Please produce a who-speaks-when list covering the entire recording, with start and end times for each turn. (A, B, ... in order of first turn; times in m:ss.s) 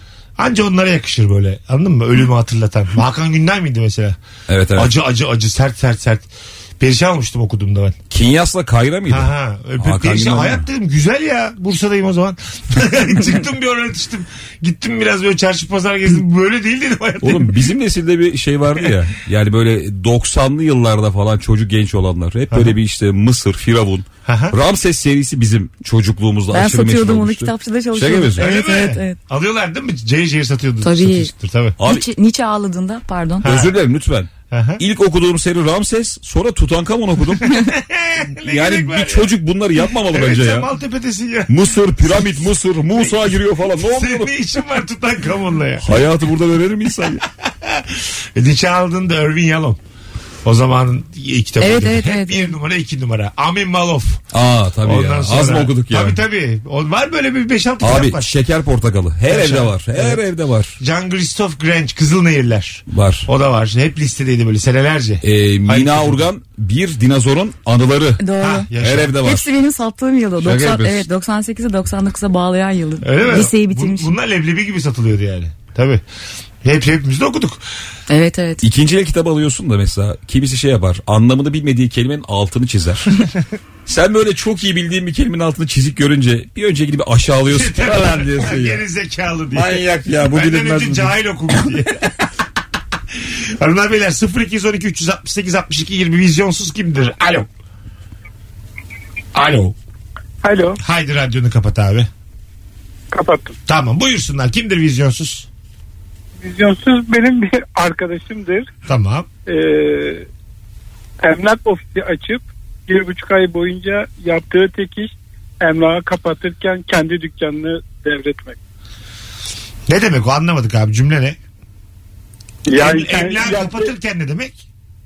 0:00.4-0:04.2 A
0:04.5-0:04.9 B
0:04.8-0:06.3 A
0:06.8-0:08.0 A
0:08.1-0:10.6 B
0:09.1-0:17.5 A
0:17.2-0:28.5 B
0:24.2-0:24.6 A
0:26.5-0:29.2 C
0:28.4-0:31.8 A
0:30.8-0:31.3 C
0:31.8-0:32.0 B
0:31.8-0:33.5 C
0:33.4-0:33.7 A
0:33.4-0:37.6 B
0:34.5-0:34.8 A
0:37.5-0:39.3 A
0:38.4-0:40.7 B
0:40.1-0:41.5 A
0:41.5-0:44.3 B
0:43.8-0:45.9 A
0:45.8-0:47.2 B
0:47.4-0:49.8 A
0:50.4-0:54.2 A
0:51.6-0:52.5 C
0:54.3-0:56.2 B
0:54.8-0:58.3 A
0:57.8-1:00.8 B
0:59.3-1:00.2 A
1:00.8-1:06.2 A
1:02.9-1:03.3 B
1:05.2-1:08.2 B
1:08.2-1:08.7 C
1:08.4-1:09.1 A
1:08.8-1:09.5 B
1:09.2-1:14.1 C
1:10.4-1:11.1 B
1:13.0-1:16.0 A
1:16.6-1:17.6 A
1:18.1-1:18.6 C
1:18.6-1:23.1 B
1:23.8-1:28.8 B
1:27.5-1:32.0 A
1:29.5-1:31.2 B
1:33.1-1:37.5 A
1:39.3-1:39.8 A
1:40.4-1:40.8 D
1:40.8-1:42.1 A
1:43.1-1:43.6 D
1:43.7-1:45.5 A
1:46.4-1:48.7 D
1:48.9-1:49.3 A
1:49.5-1:50.3 D
1:51.2-1:58.6 D
1:59.9-2:01.4 A
2:02.7-2:03.9 D
2:02.7-2:04.6 A